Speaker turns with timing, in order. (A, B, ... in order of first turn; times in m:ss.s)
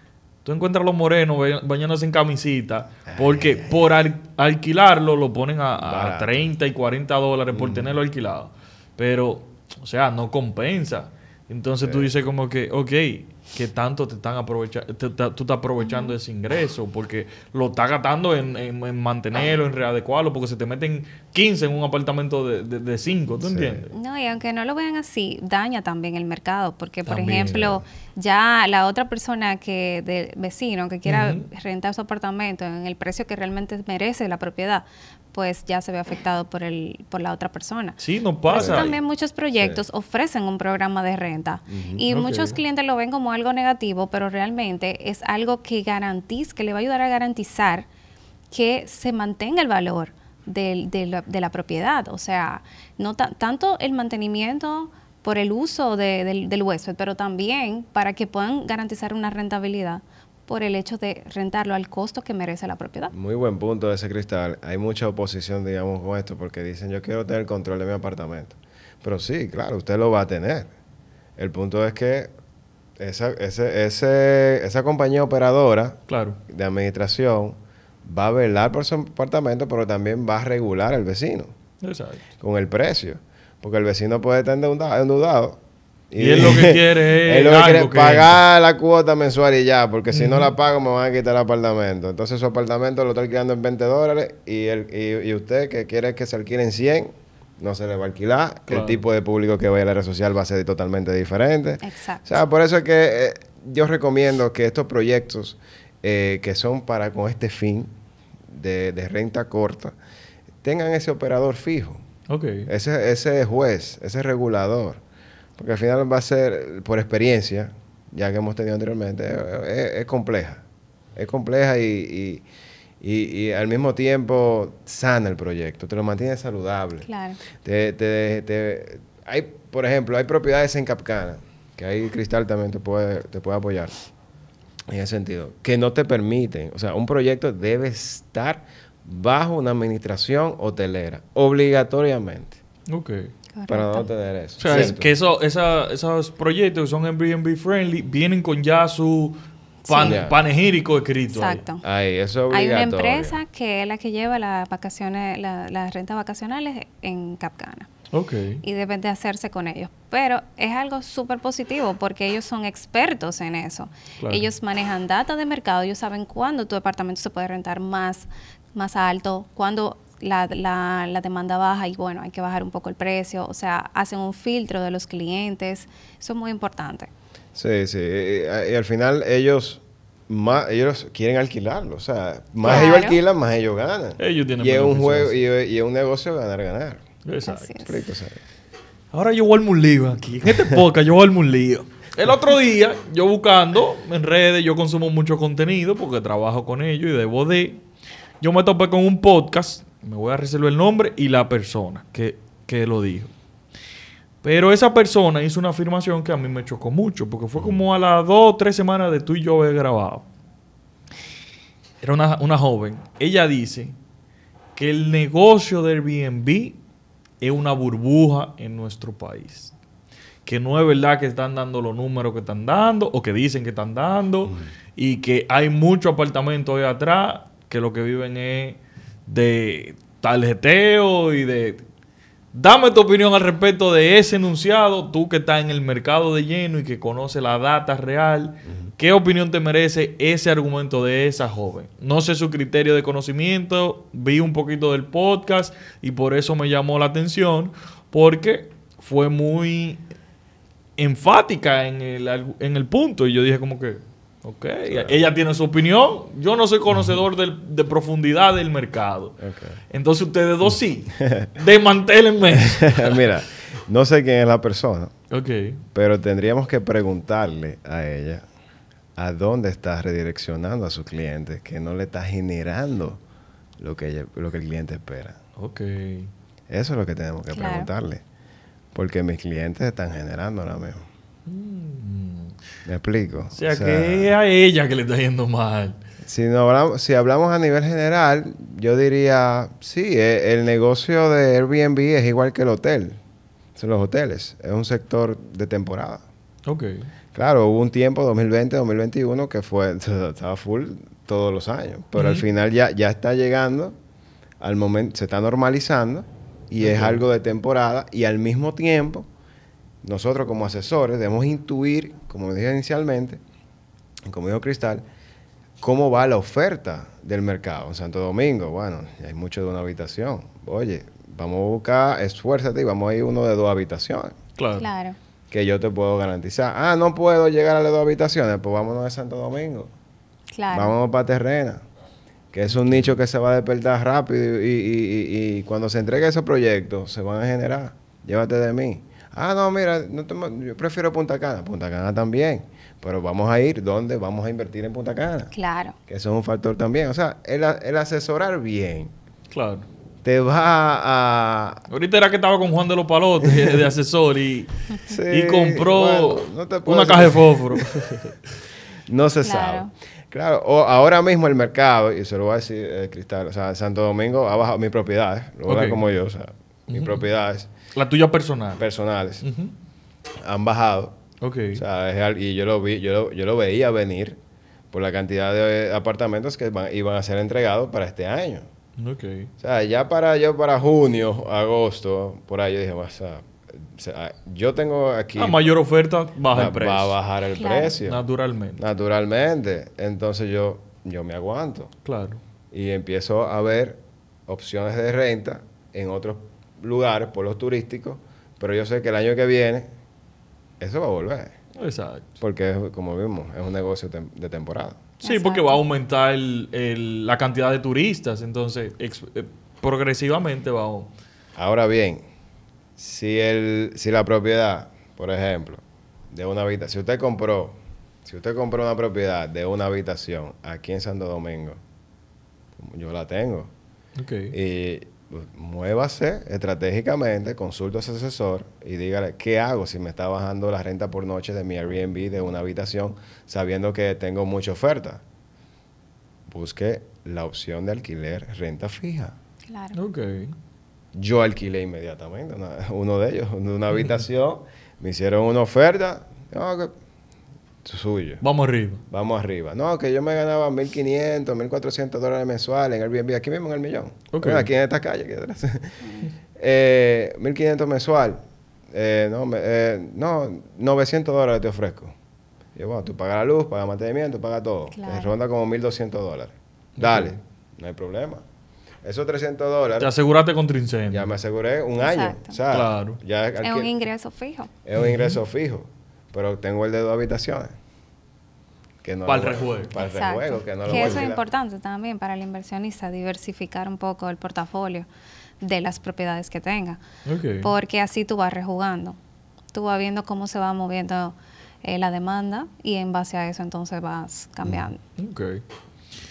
0:00.4-0:23.9 A
0:03.1-0:03.8 B
0:05.8-0:06.5 B
0:07.5-0:08.0 B
0:11.8-0:12.1 B
0:15.8-0:16.1 C
0:23.4-0:23.8 B
0:23.9-0:47.9 C
0:27.1-0:27.6 A
0:27.5-0:27.8 B
0:31.1-0:31.5 A
0:38.0-0:38.9 A
0:38.6-0:39.0 B
0:39.6-0:39.8 B
0:41.7-0:42.0 B
0:42.1-0:42.6 A
0:48.5-1:03.1 C
1:03.1-1:10.7 B
1:11.4-1:12.3 B
1:13.0-1:21.5 B
1:16.1-1:16.4 A
1:21.8-1:22.2 A
1:22.4-1:25.6 B
1:26.1-1:47.9 B
1:26.2-1:28.4 A
1:30.1-1:30.5 A
1:38.7-1:39.0 A
1:41.8-1:42.3 C
1:48.5-1:50.0 B
1:50.6-1:52.0 B
1:52.3-1:52.7 A
1:52.7-1:55.0 B
1:55.6-2:00.6 B
2:01.2-2:02.4 B
2:03.0-2:07.1 B
2:07.0-2:07.4 C
2:07.6-2:13.9 B
2:14.9-2:22.6 B
2:22.9-2:23.3 A
2:23.6-2:24.1 C
2:23.7-2:25.1 B
2:24.6-2:31.6 A
2:29.8-2:30.2 C
2:30.0-2:30.4 B
2:31.3-2:31.8 C
2:31.8-2:33.4 B
2:32.5-2:37.9 C
2:38.1-2:38.6 A
2:38.6-2:57.1 C
2:57.6-3:07.0 B
3:02.6-3:03.0 A
3:02.7-3:03.2 C
3:04.2-3:05.4 A
3:07.3-3:07.8 A
3:07.5-3:08.0 C
3:07.8-3:08.4 B
3:09.1-3:17.8 A
3:18.4-3:23.3 A
3:24.4-3:30.3 A
3:32.0-3:34.0 A
3:34.8-3:36.8 A
3:37.4-3:39.7 A
3:40.4-3:51.8 A
3:52.5-4:10.0 A
4:11.0-4:19.4 A
4:14.9-4:15.2 B
4:19.4-4:19.8 B
4:19.9-4:23.3 A
4:21.2-4:21.5 B
4:22.5-4:25.1 B
4:25.3-4:25.8 A
4:26.0-4:28.4 B
4:29.2-4:33.2 B
4:33.8-4:35.4 B
4:35.6-4:36.3 A
4:36.7-4:38.2 B
4:37.5-4:37.9 C
4:38.9-4:41.0 B
4:41.5-4:42.6 A
4:42.9-4:44.3 B
4:43.5-4:46.0 A
4:46.2-4:53.2 B
4:53.8-4:56.2 B
4:56.7-4:57.1 A
4:57.3-5:04.0 B
5:02.2-5:02.4 A
5:04.6-5:09.3 B
5:06.8-5:07.2 A
5:10.0-5:13.4 B
5:14.3-5:15.0 B
5:15.8-5:24.4 B
5:24.6-5:24.9 A
5:24.8-5:25.2 C
5:25.5-5:29.9 B
5:30.5-5:30.9 C
5:30.7-5:31.8 B
5:32.5-5:45.5 B
5:45.5-5:46.0 C
5:46.1-5:49.1 B
5:49.5-5:49.9 A
5:50.2-5:51.8 B
5:51.9-5:54.7 A
5:53.4-5:53.8 B
5:55.1-5:58.1 B
5:55.3-5:58.4 A
5:59.1-6:07.7 B
5:59.4-5:59.9 C
6:05.7-6:06.0 A
6:06.9-6:07.3 A
6:08.0-6:08.8 A
6:08.8-6:09.4 B
6:09.4-6:09.7 A
6:10.4-6:11.2 B
6:11.4-6:11.8 A
6:11.8-6:14.4 B
6:14.9-6:18.7 B
6:19.0-6:19.5 A
6:19.6-6:25.6 B
6:25.4-6:27.2 A
6:26.5-6:28.2 B
6:27.6-6:28.0 C
6:28.0-6:28.8 A
6:28.8-6:31.9 B
6:32.0-6:32.4 A
6:32.7-6:39.9 B
6:40.8-6:41.5 B
6:41.8-6:42.3 A
6:42.4-6:45.0 B
6:45.2-6:51.1 A
6:45.2-6:45.8 C
6:51.6-6:52.2 B
6:53.0-7:01.8 B
7:02.8-7:03.7 B
7:04.2-7:04.6 A
7:04.5-7:15.2 B
7:16.5-7:19.4 B
7:19.7-7:20.0 C
7:20.0-7:20.6 A
7:21.1-7:27.0 B
7:27.8-7:28.4 B
7:28.4-7:29.0 A
7:29.1-7:36.0 B
7:34.3-7:34.7 A
7:36.6-7:38.4 B
7:38.9-7:42.1 B
7:42.8-7:48.4 B
7:44.9-7:45.3 C
7:47.0-7:47.4 A
7:49.0-7:50.1 B
7:50.0-7:51.3 A
7:51.1-7:53.9 B
7:52.0-7:52.6 C
7:52.7-7:53.2 A
7:53.6-7:54.7 C
7:54.8-7:57.7 B
7:55.0-7:55.4 A
7:59.0-8:01.4 B
7:59.3-8:00.0 A
8:00.0-8:05.1 C
8:00.9-8:01.2 A
8:05.6-8:07.0 C
8:07.3-8:07.7 A
8:07.6-8:09.2 C
8:09.7-8:15.0 C
8:15.2-8:15.6 A